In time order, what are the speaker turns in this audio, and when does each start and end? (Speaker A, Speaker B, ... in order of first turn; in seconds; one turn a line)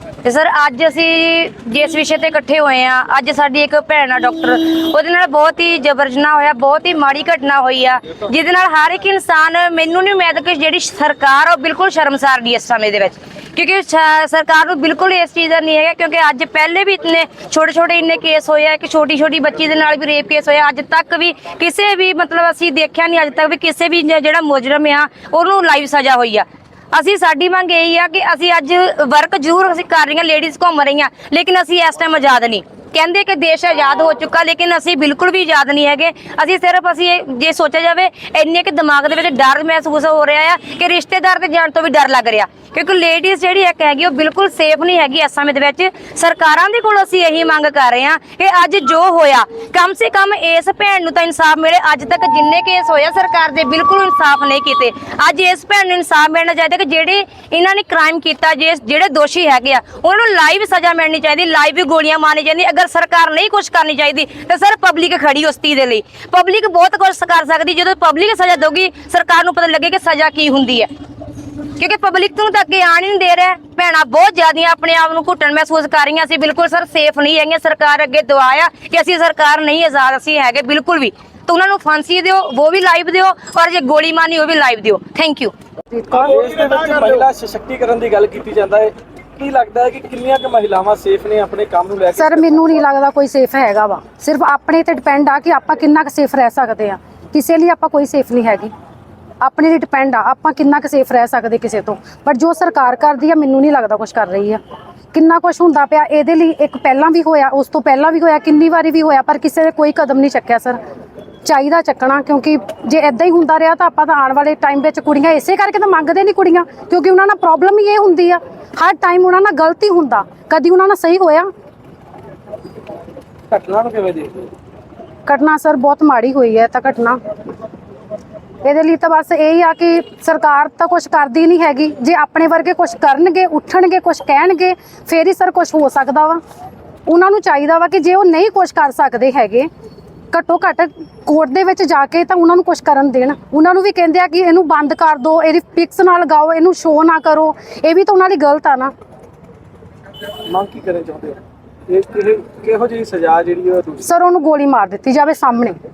Speaker A: 0.2-70.9
Speaker A: 71.8-85.5
Speaker B: 85.9-86.4
Speaker C: 86.2-92.8
Speaker B: 92.2-98.7
Speaker B: 99.4-104.6
Speaker B: 105.1-110.8
Speaker B: 111.4-121.5
Speaker C: 123.5-124.5
Speaker B: 125.2-127.2
Speaker B: 128.6-136.4
Speaker B: 137.1-139.7
Speaker B: 140.3-148.9
Speaker C: 150.4-154.0
Speaker B: 154.0-155.8